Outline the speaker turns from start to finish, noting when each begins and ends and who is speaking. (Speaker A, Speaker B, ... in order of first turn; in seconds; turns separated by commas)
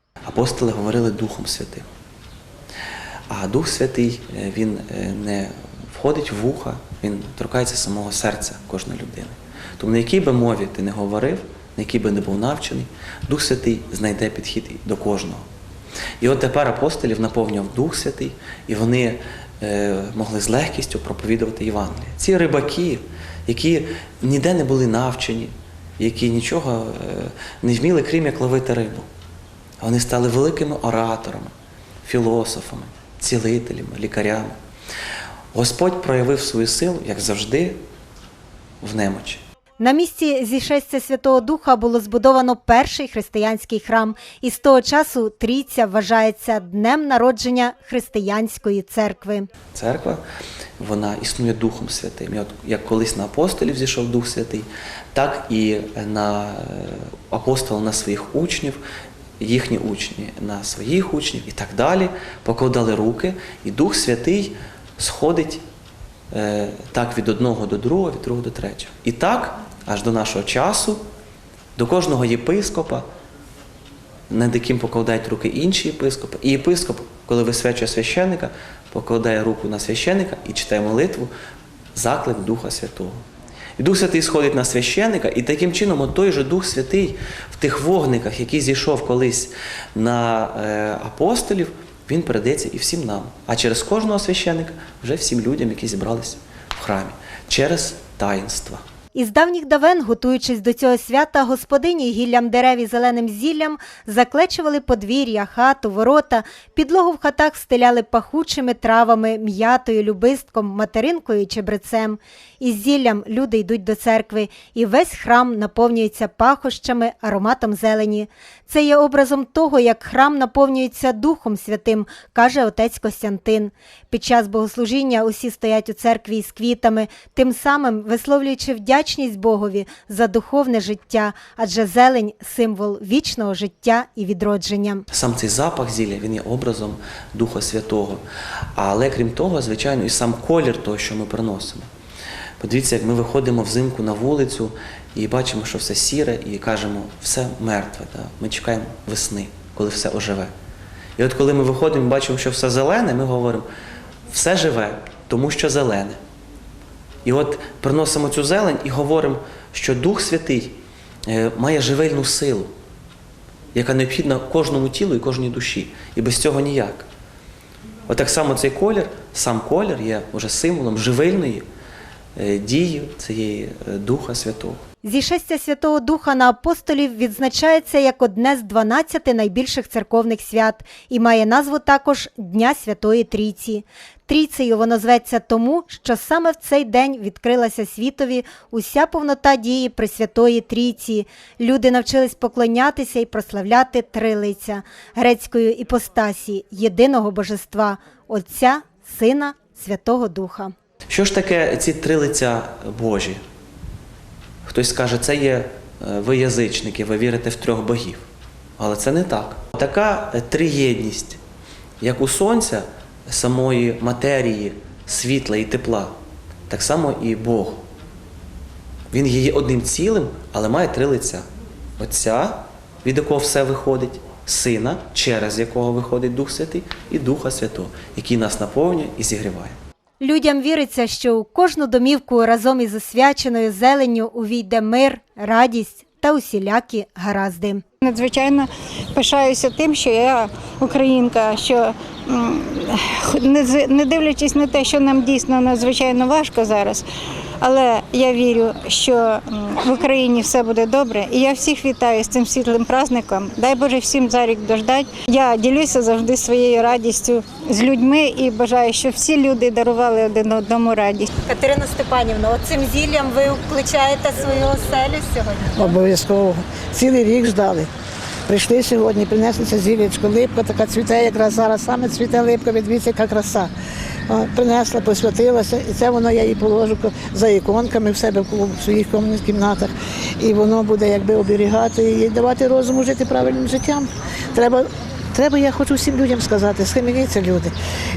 Speaker A: 0.2-1.9, Speaker A: 3.3-15.4, Speaker A: 16.2-29.1, Speaker A: 29.8-31.5, Speaker A: 32.0-34.5, Speaker A: 35.5-37.8, Speaker A: 38.8-39.4, Speaker B: 39.8-49.5, Speaker A: 49.7-50.2, Speaker A: 50.8-58.8, Speaker A: 59.4-65.6, Speaker A: 66.3-71.0, Speaker A: 71.8-73.0, Speaker A: 74.3-81.3, Speaker A: 81.9-83.2, Speaker A: 83.8-98.8, Speaker B: 99.1-135.1, Speaker A: 135.1-138.2, Speaker A: 138.8-141.9, Speaker A: 142.6-150.5, Speaker A: 151.2-153.7, Speaker A: 154.3-156.2, Speaker A: 157.2-162.7, Speaker A: 163.7-167.1, Speaker A: 168.1-171.6, Speaker A: 172.4-174.8, Speaker B: 175.0-200.7, Speaker A: 201.1-203.4, Speaker A: 204.7-208.2, Speaker A: 208.8-211.4, Speaker A: 212.0-216.1, Speaker A: 216.7-217.8, Speaker A: 219.1-221.4, Speaker A: 222.0-229.8, Speaker B: 230.2-237.8, Speaker C: 238.0-247.1, Speaker C: 247.6-261.3, Speaker B: 261.4-266.0, Speaker D: 265.8-267.9, Speaker D: 268.5-273.7, Speaker D: 274.3-287.7